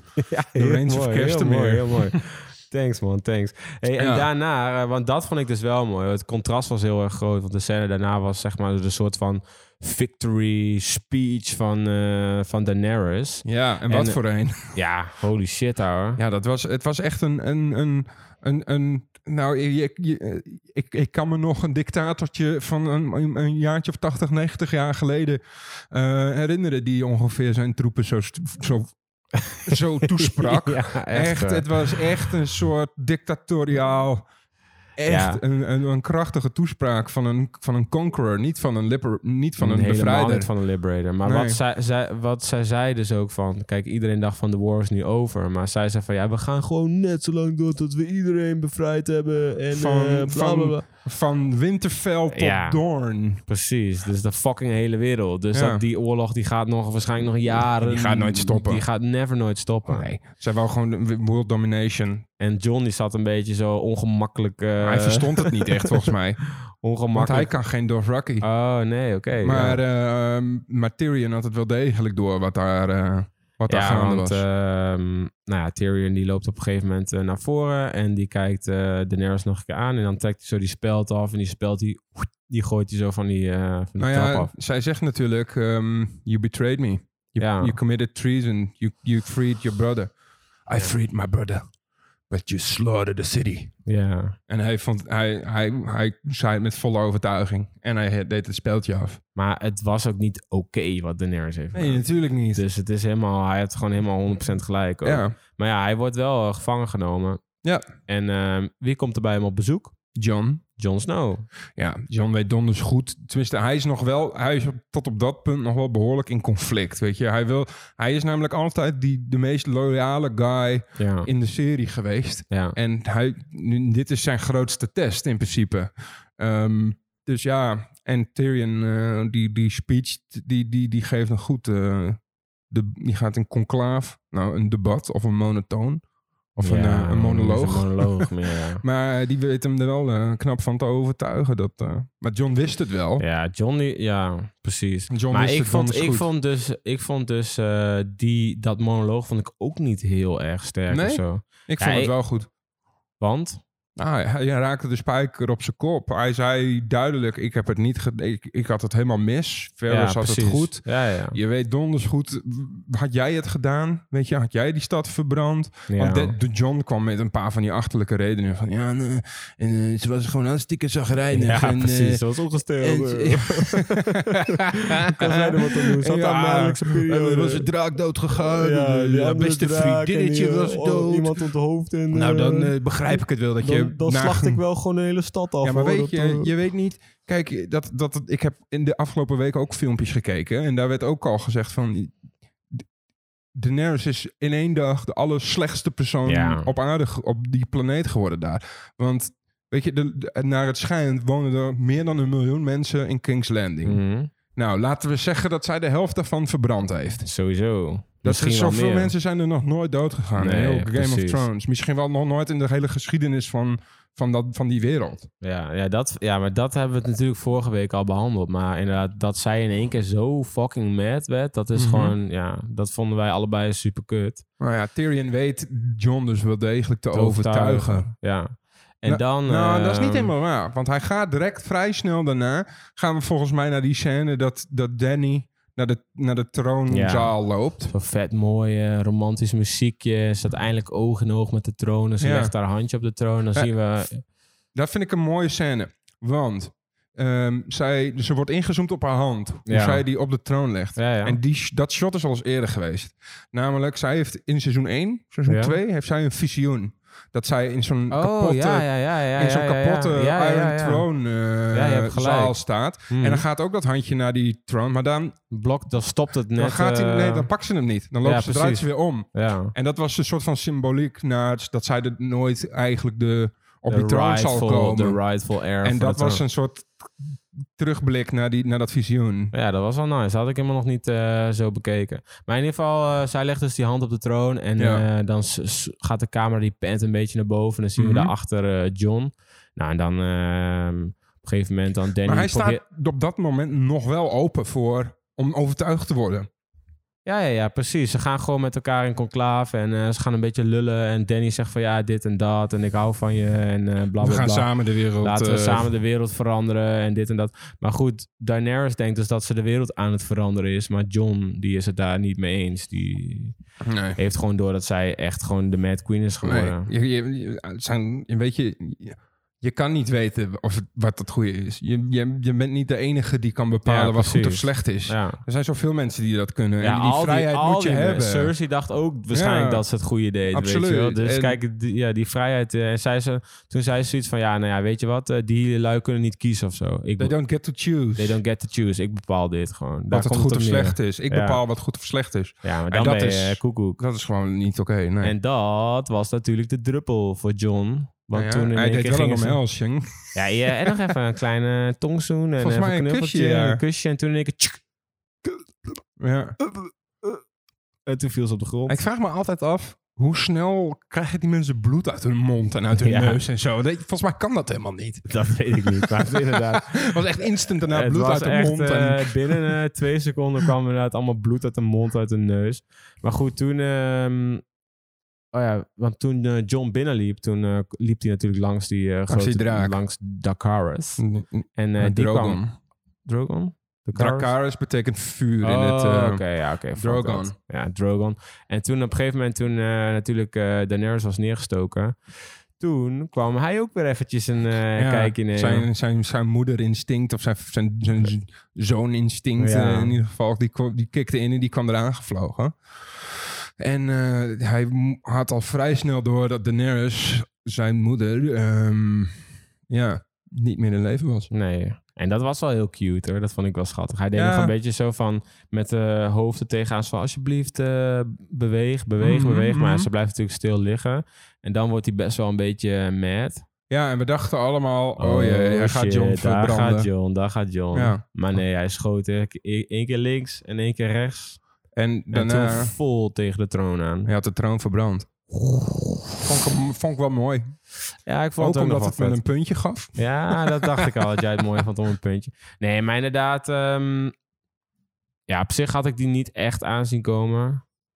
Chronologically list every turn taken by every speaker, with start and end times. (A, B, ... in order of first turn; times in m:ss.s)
0:00.2-0:14.2 A
0:00.5-0:02.2 B
0:04.0-0:04.2 B
0:13.4-0:14.8 B
0:14.7-0:16.2 A
0:16.2-0:28.9 B
0:29.4-0:32.0 A
0:29.6-0:34.2 B
0:35.0-0:40.5 B
0:35.0-0:35.4 A
0:39.6-0:50.8 A
0:41.2-0:41.6 B
0:49.7-0:53.4 B
0:52.3-0:52.8 A
0:53.5-1:00.0 A
0:55.5-0:55.8 B
0:57.8-0:58.8 B
0:59.8-1:02.2 B
1:02.4-1:05.9 A
1:04.8-1:06.4 B
1:06.8-1:07.5 A
1:07.1-1:08.5 B
1:08.4-1:09.8 A
1:09.4-1:14.4 B
1:13.7-1:24.5 A
1:24.0-1:30.1 B
1:27.4-1:27.8 A
1:30.7-1:31.6 B
1:32.3-1:33.7 B
1:33.8-1:34.4 A
1:34.5-1:39.2 B
1:39.4-1:47.4 A
1:41.7-1:42.6 B
1:45.0-1:45.4 B
1:48.1-1:49.9 A
1:50.1-1:50.6 B
1:50.8-1:51.5 A
1:51.8-2:16.0 B
2:01.0-2:01.3 A
2:02.5-2:02.8 A
2:16.6-2:18.3 B
2:16.6-2:18.8 A
2:18.8-2:23.2 B
2:23.2-2:32.1 A
2:25.1-2:26.3 B
2:30.9-2:32.5 B
2:33.2-2:33.6 A
2:34.0-2:52.2 B
2:39.9-2:41.4 A
2:45.9-2:46.4 A
2:51.3-2:57.7 A
2:52.8-3:01.5 B
2:58.5-3:06.5 A
3:02.1-3:04.6 B
3:05.6-3:12.1 B
3:13.5-3:24.0 B
3:16.2-3:16.7 A
3:23.8-3:24.3 A
3:24.5-3:27.2 B
3:27.2-3:29.1 A
3:28.2-3:35.3 B
3:30.4-3:31.5 A
3:35.4-3:44.4 A
3:41.8-3:42.1 B
3:44.6-3:48.1 B
3:47.1-3:50.3 A
3:49.0-3:57.9 B
3:56.9-3:57.4 A
3:57.9-4:04.2 A
4:02.2-4:02.5 B
4:04.7-4:25.4 B
4:09.7-4:10.0 A
4:11.0-4:11.4 A
4:15.5-4:15.7 A
4:18.1-4:21.0 A
4:21.7-4:22.5 A
4:23.1-4:23.4 A
4:25.5-4:27.5 A
4:26.6-4:35.2 B
4:28.2-4:29.7 A
4:33.9-4:36.4 A
4:35.8-4:36.9 B
4:37.8-4:39.5 B
4:39.5-4:52.8 A
4:44.8-4:45.0 B
4:48.0-4:48.3 B
4:52.2-4:56.5 B
4:57.2-5:04.7 A
5:04.2-5:05.9 B
5:05.2-5:13.6 A
5:13.8-5:14.2 B
5:14.2-5:16.9 A
5:16.4-5:28.5 B
5:23.8-5:25.4 A
5:26.8-5:37.3 A
5:29.3-5:29.8 B
5:30.5-5:31.6 B
5:37.2-5:38.4 B
5:38.2-5:41.6 A
5:40.1-5:45.3 B
5:42.6-5:44.0 A
5:45.2-5:49.6 A
5:48.3-5:50.9 B
5:50.3-5:54.8 A
5:52.6-5:53.8 B
5:56.2-5:56.6 B
5:56.7-5:57.4 A
5:58.1-5:59.0 A
5:58.9-6:09.8 B
6:03.0-6:03.4 A
6:05.3-6:07.2 A
6:07.8-6:14.6 A
6:15.5-6:21.2 A
6:19.3-6:20.0 B
6:21.2-6:22.7 B
6:21.8-6:22.6 A
6:23.2-6:24.5 A
6:24.1-6:26.4 B
6:25.6-6:32.2 A
6:27.0-6:27.5 B
6:32.8-6:35.9 A
6:35.0-6:51.5 B
6:39.6-6:40.2 A
6:51.5-7:03.6 A
6:54.3-6:54.7 B
6:59.2-7:00.1 B
7:03.9-7:07.1 B
7:05.2-7:11.6 A
7:07.9-7:08.2 B
7:12.0-7:12.9 B
7:12.3-7:14.3 A
7:14.2-7:15.3 B
7:15.6-7:16.4 A
7:16.4-7:17.7 B
7:18.2-7:19.4 A
7:18.6-7:21.2 B
7:20.2-7:24.3 A
7:25.5-7:27.8 A